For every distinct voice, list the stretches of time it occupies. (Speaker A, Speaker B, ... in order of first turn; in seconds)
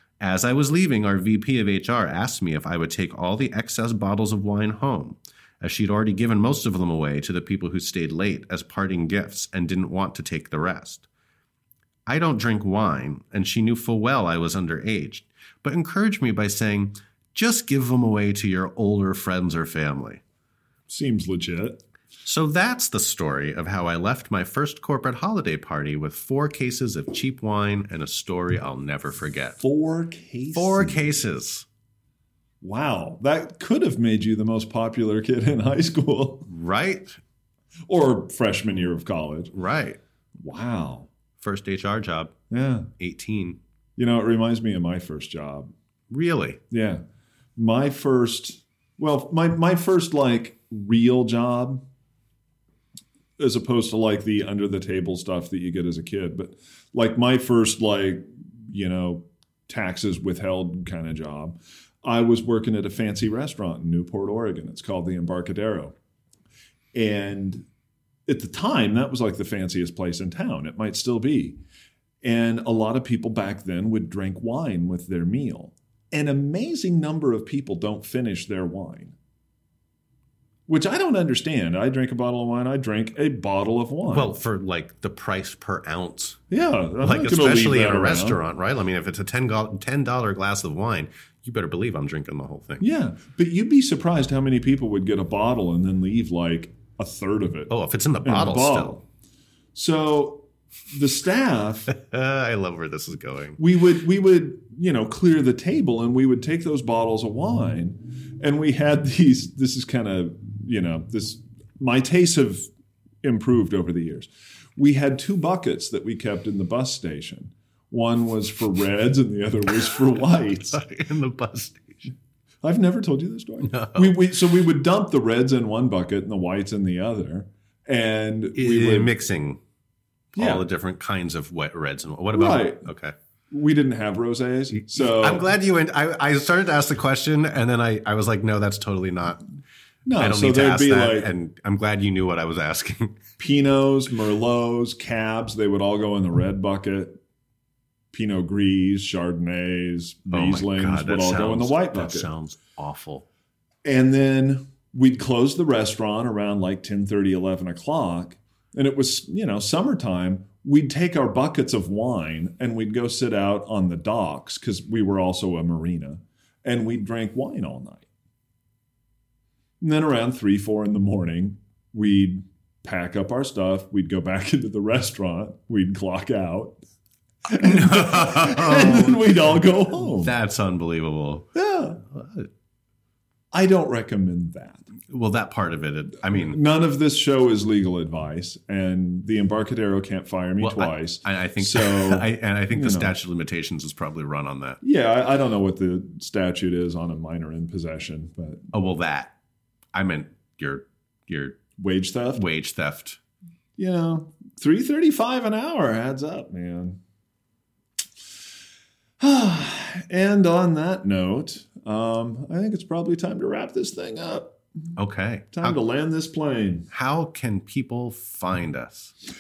Speaker A: 0.2-11.1, 12.1-20.2, 22.2-29.6, 30.6-31.7, 36.5-37.2, 39.5-40.0, 41.4-42.4, 43.0-43.6, 46.1-46.6, 84.1-86.4, 87.0-92.8, 97.7-99.0, 101.9-103.6, 120.7-122.1, 123.6-124.3, 128.6-129.6, 130.3-133.1, 134.8-139.4, 140.2-143.3, 150.3-153.3, 177.5-181.5, 182.0-182.5, 185.1-186.6, 190.6-194.8, 198.7-199.3, 199.9-201.6, 202.3-203.2, 215.0-215.8, 216.9-219.1
Speaker B: 20.9-21.8, 29.6-31.2, 32.6-36.5, 37.9-39.5, 40.4-41.1, 42.5-42.9, 44.0-45.7, 46.7-47.0, 47.6-51.8, 53.4-66.0, 66.9-67.7, 68.3-71.6, 72.2-79.2, 80.7-84.4, 86.5-88.4, 92.8-99.0, 99.8-101.9, 103.6-112.7, 113.2-120.8, 122.6-129.1, 130.3-130.7, 132.3-132.9, 133.5-135.5, 140.1-141.3, 143.4-147.2, 148.1-152.3, 153.8-168.1, 169.8-176.8, 177.5-180.3, 181.5-182.0, 183.5-184.9, 186.3-193.1, 194.8-198.7, 201.8-202.5, 203.8-207.0, 209.2-214.6, 215.5-216.9